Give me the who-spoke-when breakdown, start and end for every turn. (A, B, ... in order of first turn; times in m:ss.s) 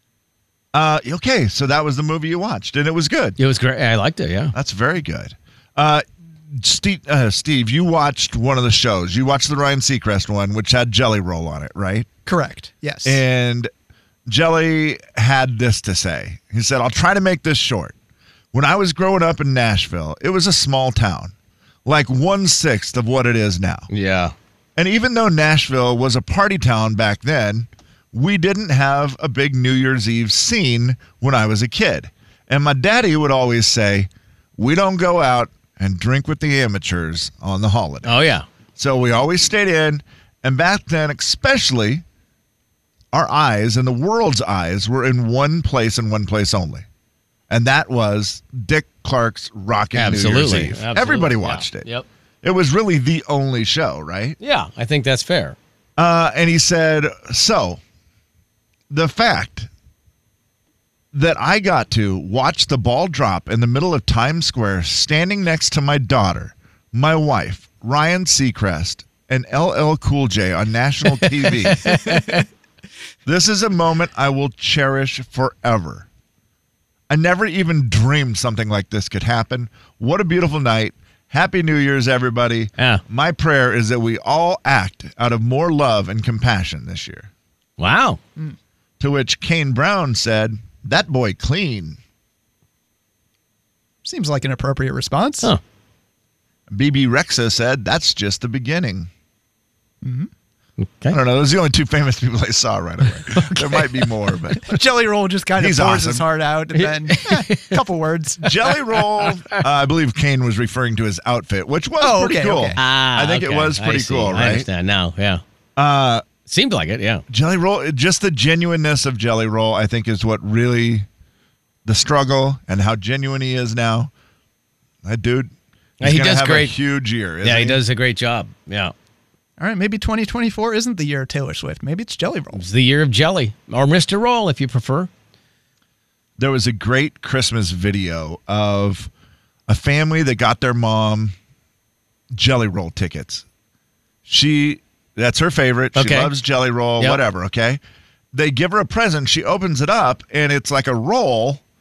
0:00.7-0:03.4 A
0:03.4-0:04.5 B
0:04.5-0:12.1 A
0:12.3-0:13.2 C
0:13.0-0:13.7 A
0:14.3-0:18.0 A
0:18.5-0:21.3 A
0:21.9-0:23.9 A
0:23.9-0:24.3 B
0:24.8-0:38.2 A
0:38.0-0:38.4 B
0:38.8-0:42.0 A
0:43.1-0:46.9 A
0:47.5-0:51.9 A
0:50.0-0:52.1 B
0:52.4-0:54.4 A
0:54.4-0:55.6 B
0:56.0-0:57.8 A
0:58.9-0:59.7 A
1:01.1-1:11.9 A
1:11.6-1:12.4 B
1:13.3-1:16.1 A
1:17.1-1:27.3 A
1:27.8-1:28.2 B
1:29.0-1:32.0 A
1:34.0-1:35.5 C
1:36.7-1:39.1 A
1:40.0-1:40.3 C
1:40.8-1:41.2 B
1:41.1-1:44.8 A
1:43.3-1:44.0 B
1:44.6-1:48.5 C
1:45.6-1:46.2 A
1:46.8-1:47.8 B
1:48.4-1:54.7 A
1:49.0-1:49.6 B
1:52.0-1:52.8 C
1:52.8-1:55.4 B
1:55.8-1:56.2 A
1:56.5-1:57.2 B
1:57.3-2:01.1 A
2:01.8-2:04.1 A
2:05.0-2:07.8 A
2:06.0-2:06.8 B
2:07.4-2:08.9 B
2:09.6-2:12.6 C
2:12.5-2:15.1 B
2:16.4-2:19.1 A
2:19.7-2:21.4 A
2:22.3-2:23.4 A
2:24.3-2:27.8 A
2:26.0-2:26.3 B
2:28.3-2:31.6 A